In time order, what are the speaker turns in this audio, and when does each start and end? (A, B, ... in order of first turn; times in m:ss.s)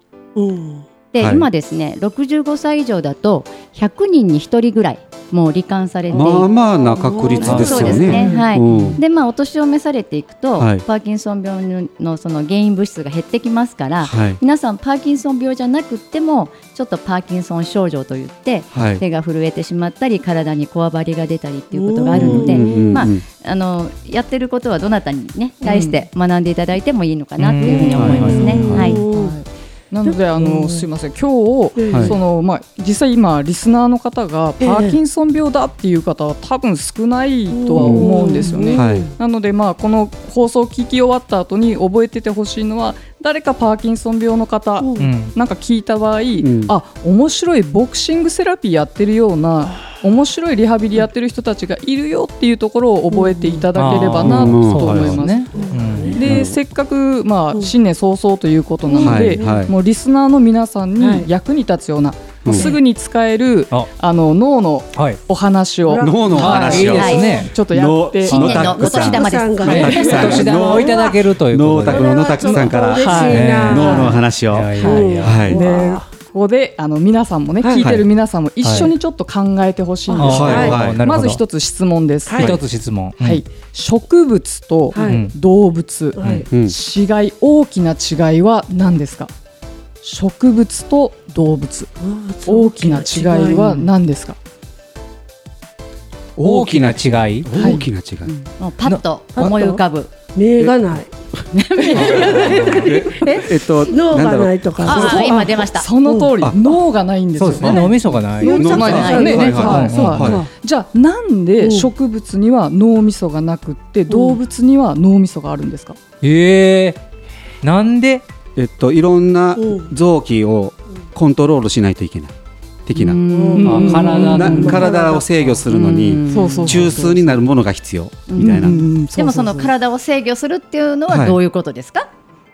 0:00.4-0:00.8 A
0:01.1-0:06.5 B
0:01.2-0:01.5 C
0:06.1-0:09.0 C
0:06.9-0:08.5 A
0:07.3-0:29.0 B
0:07.4-0:08.1 D
0:08.2-0:08.9 E
0:10.6-0:10.8 C
0:14.0-0:14.4 C
0:18.7-0:19.0 C
0:21.7-0:23.0 A
0:22.1-0:23.2 C
0:25.6-0:26.0 E
0:27.4-0:28.8 D
0:27.6-0:29.4 A
0:27.9-1:08.8 E
0:28.0-0:28.8 C
0:30.0-0:30.9 A
0:31.8-0:32.2 A
0:31.9-0:32.2 C
0:34.6-0:35.0 A
0:37.5-0:39.2 A
0:37.8-0:38.1 C
0:38.7-0:39.1 C
0:44.8-0:45.1 A
0:45.0-0:45.3 D
0:46.4-0:46.7 C
0:53.1-0:53.9 A
0:53.7-0:56.2 D
0:54.2-0:55.2 C
0:55.5-0:56.4 A
0:56.2-0:56.6 C
0:58.8-0:59.7 A
0:59.0-0:59.7 C
1:01.0-1:01.3 A
1:02.4-1:02.7 C
1:02.5-1:02.8 A
1:05.8-1:07.5 A
1:06.0-1:15.6 C
1:06.4-1:07.5 D
1:06.8-1:07.3 B
1:08.3-1:08.6 D
1:08.4-1:10.3 B
1:08.5-1:11.2 A
1:09.6-1:12.2 D
1:09.8-1:10.2 E
1:11.9-1:14.2 A
1:12.5-1:14.2 E
1:13.2-1:15.4 D
1:14.8-1:22.5 E
1:14.8-1:16.1 A
1:17.6-1:17.9 A
1:17.8-1:18.0 C
1:18.6-1:18.9 D
1:20.1-1:20.8 A
1:20.1-1:21.4 D
1:20.3-1:21.0 C
1:22.3-1:22.5 A
1:22.3-1:23.4 D
1:23.2-1:29.3 E
1:24.9-1:25.3 A
1:25.0-1:25.3 D
1:26.2-1:26.5 A
1:26.5-1:26.8 C
1:30.0-1:31.9 E
1:32.0-1:33.8 A
1:32.4-1:34.4 E
1:36.4-1:38.3 C
1:36.4-1:37.5 D
1:37.5-1:37.9 E
1:38.2-1:40.1 B
1:39.4-1:39.8 A
1:40.3-1:41.1 A
1:41.5-1:42.6 B
1:41.8-1:46.8 A
1:41.9-1:45.3 C
1:42.2-1:42.9 D
1:44.8-1:45.9 B
1:44.9-1:56.0 E
1:47.4-1:48.7 D
1:47.6-1:50.5 A
1:48.5-1:49.5 B
1:48.6-1:50.4 C
1:49.5-1:50.3 D
1:51.6-1:51.9 A
1:54.1-1:54.4 A
1:56.2-1:57.0 D
1:57.6-1:58.2 D
1:58.6-2:02.3 C
1:59.6-1:59.9 A
2:02.8-2:03.2 C
2:03.0-2:04.9 E
2:03.3-2:05.3 A
2:03.6-2:04.8 D
2:04.3-2:08.8 C
2:05.5-2:07.4 E
2:08.3-2:12.1 B
2:08.4-2:09.7 E
2:11.1-2:11.4 C